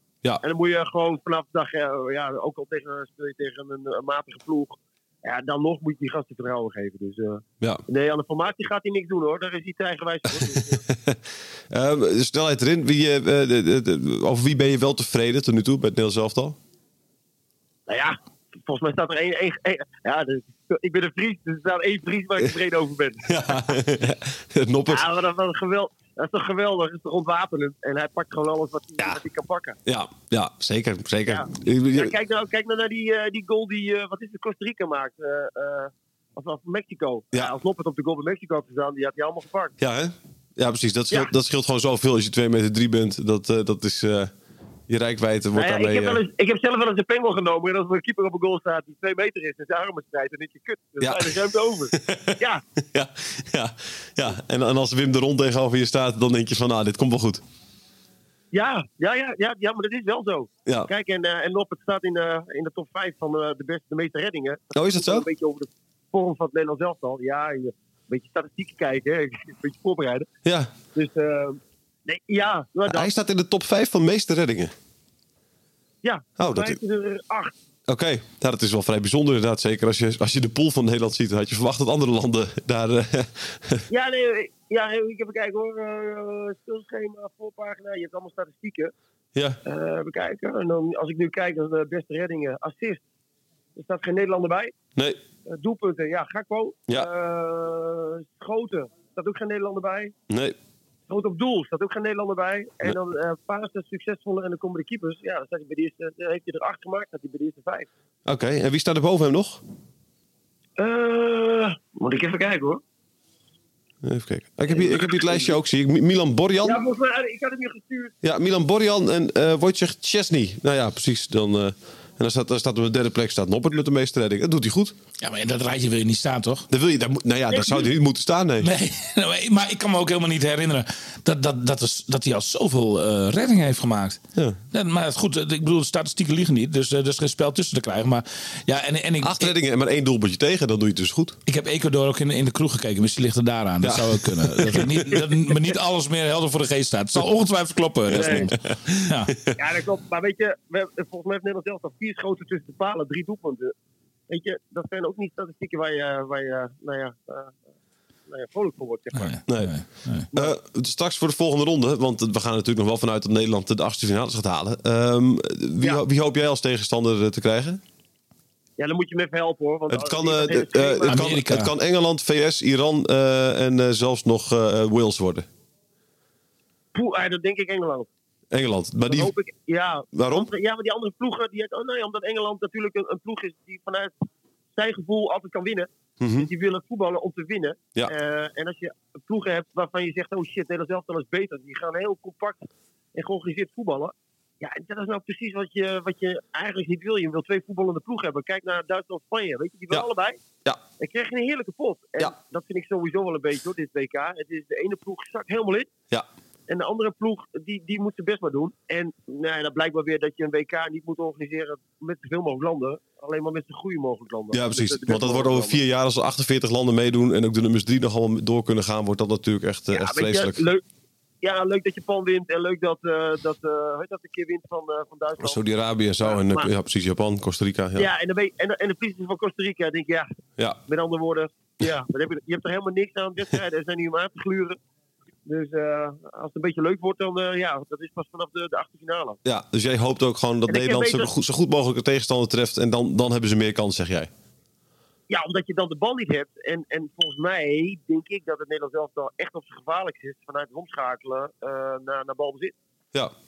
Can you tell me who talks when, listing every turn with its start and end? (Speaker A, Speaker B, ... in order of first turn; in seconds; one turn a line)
Speaker A: 0.4-10.8
Speaker B: 10.4-16.6
Speaker A: 17.9-23.7
Speaker B: 23.3-25.1
Speaker A: 24.9-29.8
Speaker B: 29.9-32.1
Speaker A: 31.3-39.8
Speaker B: 39.8-44.3
Speaker B: 44.9-46.2
Speaker A: 45.6-52.6
Speaker B: 51.0-52.4
Speaker B: 52.9-57.4
Speaker A: 58.5-70.3
Speaker B: 64.7-65.3
Speaker B: 70.5-70.7
Speaker A: 71.0-73.1
Speaker B: 72.9-74.7
Speaker A: 76.0-77.5
Speaker B: 76.4-76.8
Speaker B: 77.9-83.9
Speaker A: 83.9-88.9
Speaker A: 89.7-93.0
Speaker A: 93.8-94.8
Speaker A: 95.5-100.2
Speaker B: 100.3-100.6
Speaker A: 101.1-107.9
Speaker B: 108.3-109.6
Speaker A: 110.8-112.8
Speaker B: 114.0-116.8
Speaker A: 114.7-115.6
Speaker A: 116.6-118.2
Speaker B: 118.2-125.0
Speaker C: 125.2-126.7
Speaker B: 126.7-128.7
Speaker A: 127.5-127.9
Speaker C: 128.6-134.2
Speaker C: 134.7-139.6
Speaker B: 139.2-141.4
Speaker C: 141.5-149.3
Speaker B: 143.8-145.2
Speaker B: 148.1-149.6
Speaker A: 148.1-148.5
Speaker A: 149.6-153.7
Speaker A: 154.3-157.6
Speaker A: 158.3-159.4
Speaker C: 159.1-160.3
Speaker B: 159.5-159.7
Speaker B: 160.3-167.8
Speaker A: 168.8-171.3
Speaker B: 169.9-175.5
Speaker C: 171.1-171.7
Speaker A: 176.9-178.1
Speaker B: 178.5-179.3
Speaker A: 179.1-184.1
Speaker B: 180.1-180.5
Speaker A: 184.8-200.4
Speaker B: 186.2-186.5
Speaker A: 201.0-205.9
Speaker A: 206.7-215.8
Speaker B: 214.5-220.6
Speaker A: 219.9-220.8
Speaker A: 221.4-225.6
Speaker B: 225.4-228.1
Speaker A: 226.2-226.7
Speaker A: 228.0-230.3
Speaker A: 230.9-234.8
Speaker A: 235.5-239.4
Speaker B: 239.4-244.3
Speaker A: 240.7-241.3
Speaker A: 245.3-252.8